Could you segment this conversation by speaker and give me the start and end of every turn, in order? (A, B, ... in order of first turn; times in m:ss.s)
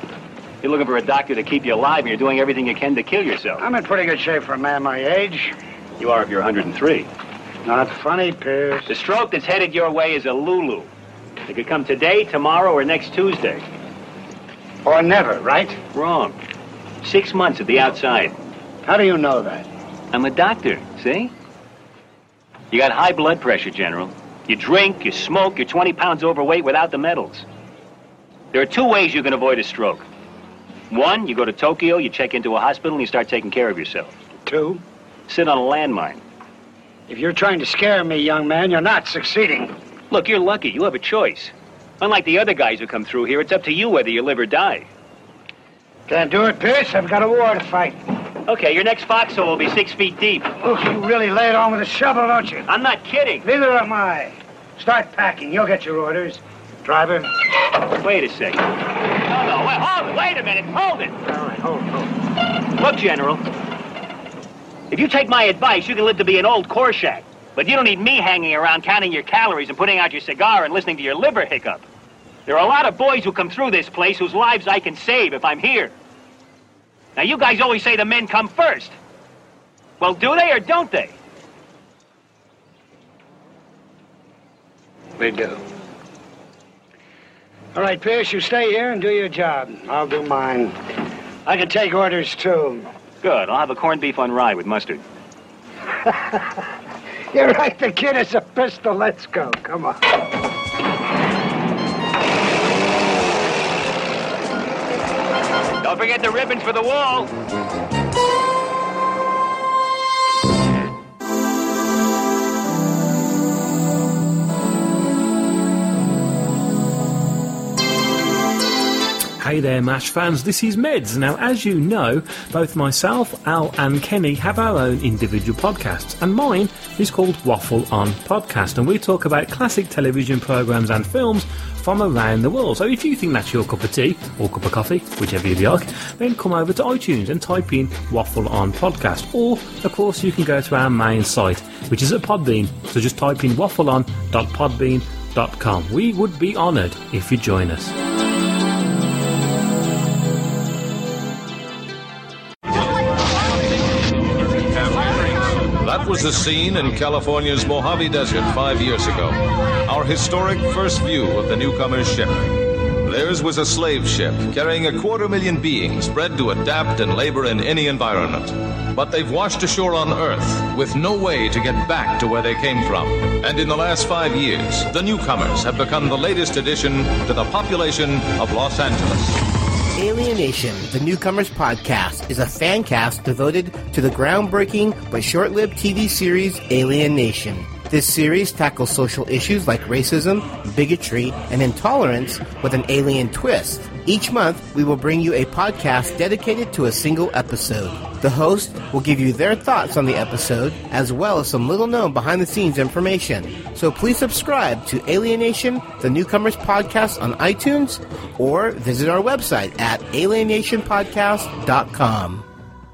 0:00.6-0:03.6 A
0:03.6-0:05.6 B
0:06.0-0:07.1 A
0:07.6-0:08.9 B
0:08.9-0:10.9 A
0:11.5-0:13.6 A
0:14.8-0:15.8 B
0:15.9-0:16.4 A
0:17.0-0:18.4 A
0:18.8-0:19.7 B
0:20.1-0:21.3 A
0:22.7-0:27.5 A
0:28.5-0:30.1 A
0:30.9-0:34.1 A
0:34.5-0:34.8 B
0:35.3-0:36.2 A
0:37.1-0:39.8 B
0:40.1-0:44.9 A
0:46.1-0:48.0 B
0:48.5-0:50.5 A
0:50.6-0:52.7 B
0:52.7-0:53.5 A
0:53.4-0:57.3 B
0:57.9-1:01.2 A
1:01.2-1:02.1 B
1:02.7-1:03.4 A
1:04.9-1:11.9 A
1:12.5-1:16.0 A
1:17.2-1:19.0 A
1:20.0-1:21.1 A
1:25.2-1:25.6 B
1:27.8-1:30.8 B
1:31.5-1:32.9 B
1:33.2-1:35.0 A
1:36.0-1:36.4 B
1:37.3-1:40.1 B
1:45.8-1:47.3 A
1:59.4-2:28.0 C
2:34.8-2:59.4 D
3:00.0-3:32.5 E